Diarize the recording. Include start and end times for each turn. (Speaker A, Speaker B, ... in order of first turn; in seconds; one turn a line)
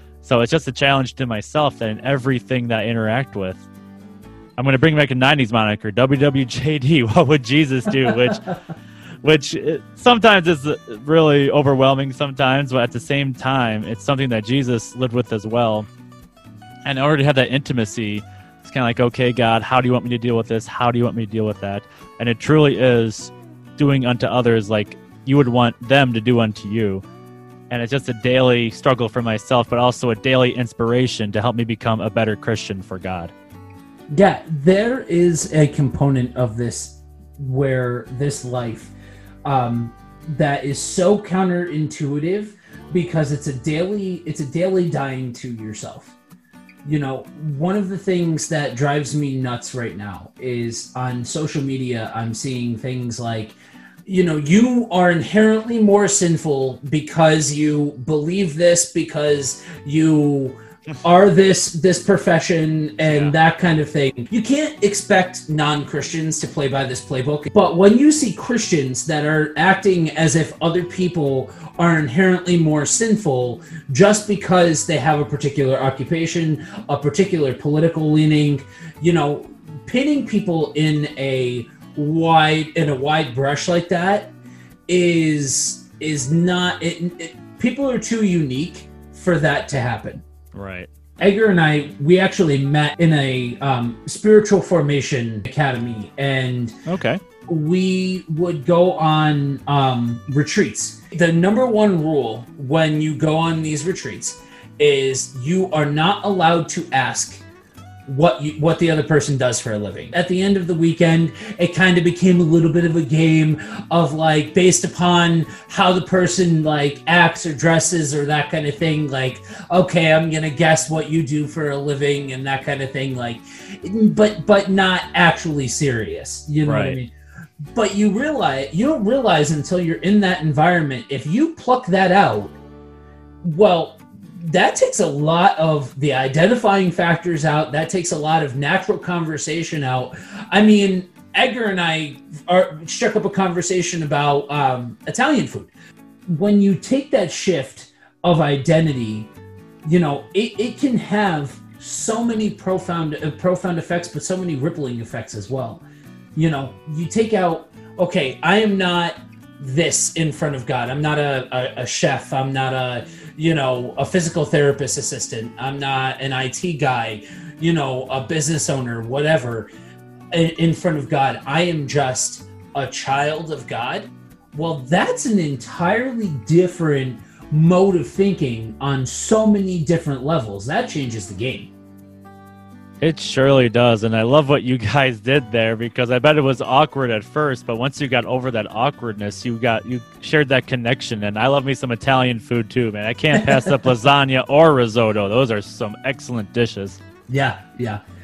Speaker A: 0.2-3.6
Speaker A: 4.6-8.4
Speaker A: 9.2-15.9
Speaker A: 16.8-27.0
Speaker A: 27.7-33.3
Speaker B: 34.1-38.9
Speaker B: 39.4-46.1
Speaker B: 46.8-84.3
Speaker A: 63.0-63.4
Speaker B: 84.9-90.2
Speaker A: 90.5-90.9
Speaker B: 91.2-96.8
Speaker A: 96.8-97.2
Speaker B: 97.5-107.4
Speaker B: 108.1-127.1
Speaker A: 126.6-127.0
Speaker B: 127.7-132.6
Speaker B: 133.4-145.7
Speaker B: 146.3-149.3
Speaker B: 149.8-155.8
Speaker B: 156.3-169.7
Speaker B: 170.3-181.7
Speaker A: 183.0-197.0
Speaker B: 197.3-198.0